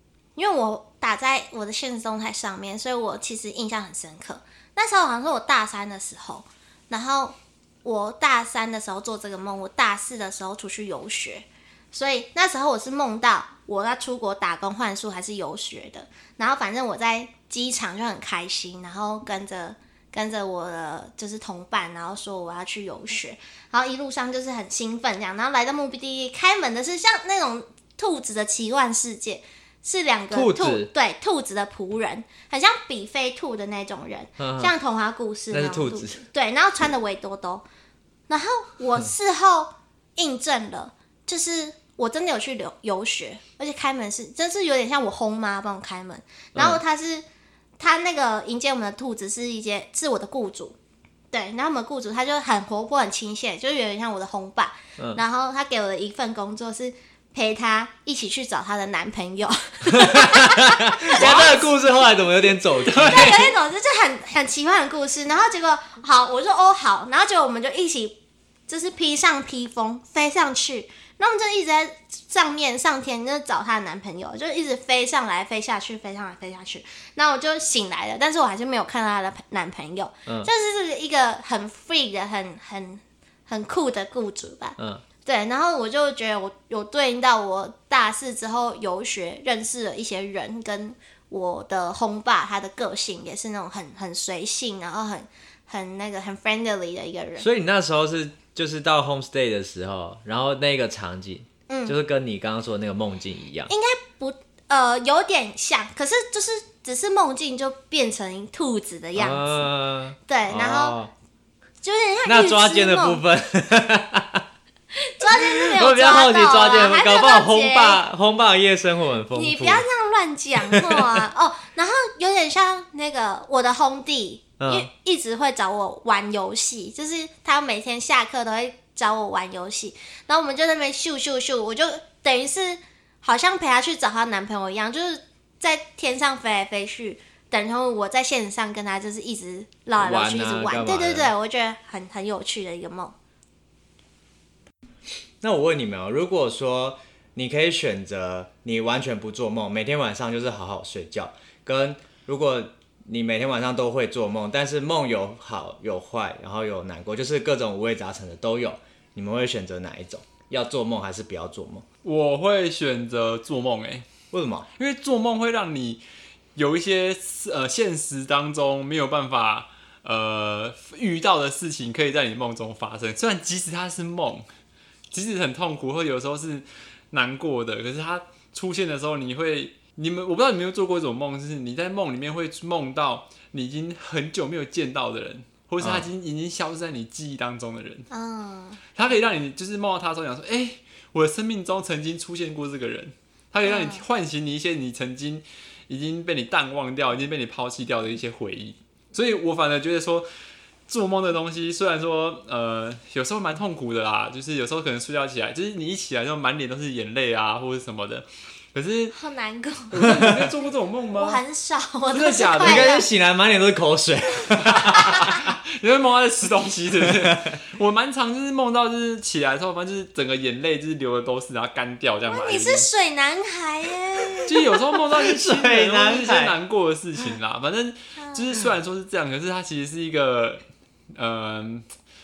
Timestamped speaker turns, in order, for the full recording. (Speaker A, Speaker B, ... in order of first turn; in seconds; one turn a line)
Speaker A: 0.3-37.6
Speaker B: 30.3-30.9
Speaker B: 34.4-34.7
Speaker B: 35.5-36.2
Speaker A: 38.3-47.2
Speaker B: 46.5-46.8
Speaker A: 47.8-50.8
Speaker A: 51.3-61.7
Speaker B: 60.0-63.5
Speaker C: 62.9-63.4
Speaker A: 63.0-68.2
Speaker A: 68.7-97.5
Speaker B: 84.8-85.0
Speaker B: 97.4-103.7
Speaker A: 101.7-102.0
Speaker A: 103.7-109.7
Speaker B: 109.2-111.1
Speaker A: 110.3-111.0
Speaker A: 111.8-113.2
Speaker B: 112.2-114.4
Speaker A: 115.0-118.0
Speaker B: 115.3-119.8
Speaker A: 119.3-143.1
Speaker B: 120.6-121.2
Speaker B: 124.6-124.9
Speaker B: 140.0-141.3
Speaker B: 145.4-161.8
Speaker C: 162.0-164.0
Speaker B: 164.3-164.7
Speaker C: 164.8-166.0
Speaker C: 166.5-174.4
Speaker C: 175.1-188.1
Speaker B: 185.8-186.1
Speaker A: 188.1-188.8
Speaker C: 188.9-200.2
Speaker A: 193.6-194.0
Speaker C: 200.9-209.1
Speaker A: 209.1-210.1
Speaker C: 209.9-211.4
Speaker B: 210.0-210.5
Speaker A: 211.2-213.1
Speaker C: 212.1-212.9
Speaker B: 212.6-215.4
Speaker C: 214.5-222.9
Speaker A: 214.9-215.4
Speaker B: 217.1-217.6
Speaker A: 222.2-224.7
Speaker C: 224.5-230.6
Speaker B: 225.1-226.5
Speaker A: 228.2-228.5
Speaker C: 231.1-231.8